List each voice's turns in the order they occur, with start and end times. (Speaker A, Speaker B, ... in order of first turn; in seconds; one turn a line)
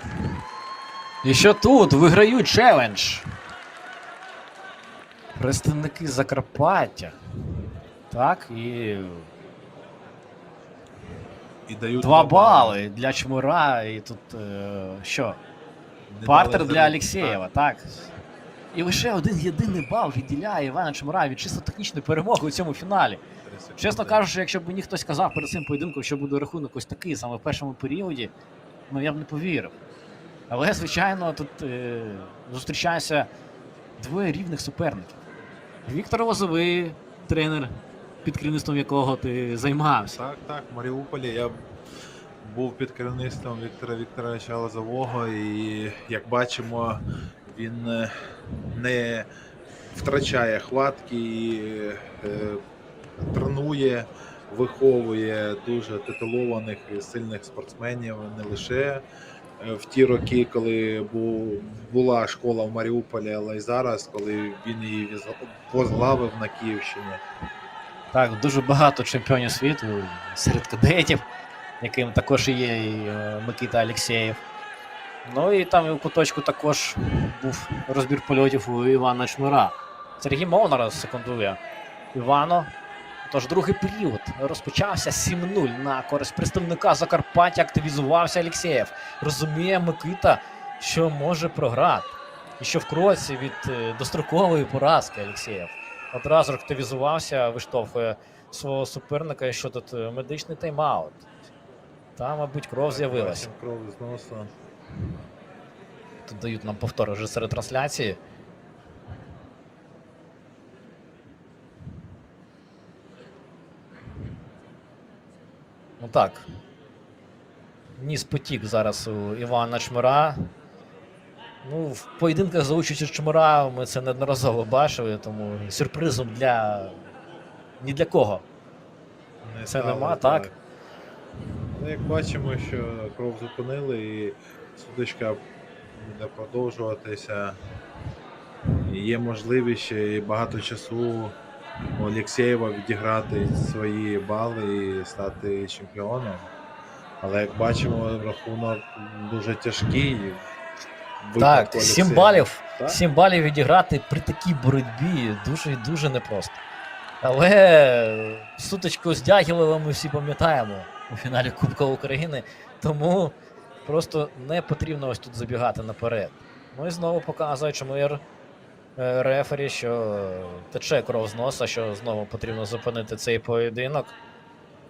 Speaker A: 1.2-3.3
Speaker A: 5.3-7.1
Speaker A: 8.1-9.3
Speaker B: 11.7-12.8
Speaker A: 12.0-15.4
Speaker B: 16.1-17.4
Speaker A: 16.2-18.1
Speaker A: 18.7-23.2
Speaker B: 23.4-24.3
Speaker A: 23.8-28.3
Speaker A: 28.9-29.7
Speaker A: 30.5-33.3
Speaker A: 34.0-35.2
Speaker A: 35.9-40.2
Speaker B: 40.1-41.5
Speaker B: 42.4-48.1
Speaker B: 48.7-49.3
Speaker B: 49.9-52.6
Speaker B: 53.2-59.0
Speaker B: 59.6-67.2
Speaker A: 68.1-71.2
Speaker A: 71.8-74.4
Speaker A: 75.2-81.6
Speaker A: 82.1-82.7
Speaker A: 83.2-101.2
Speaker A: 102.2-103.5
Speaker B: 102.8-104.5
Speaker A: 106.2-108.2
Speaker A: 116.0-116.5
Speaker A: 118.0-120.4
Speaker A: 121.6-127.0
Speaker A: 127.8-128.4
Speaker B: 129.4-130.5
Speaker A: 129.7-130.5
Speaker B: 131.7-135.4
Speaker B: 135.9-137.6
Speaker B: 138.8-141.4
Speaker B: 142.0-146.5
Speaker B: 147.2-150.4
Speaker B: 151.2-153.0
Speaker A: 151.4-156.6
Speaker A: 157.2-168.2
Speaker A: 169.0-174.1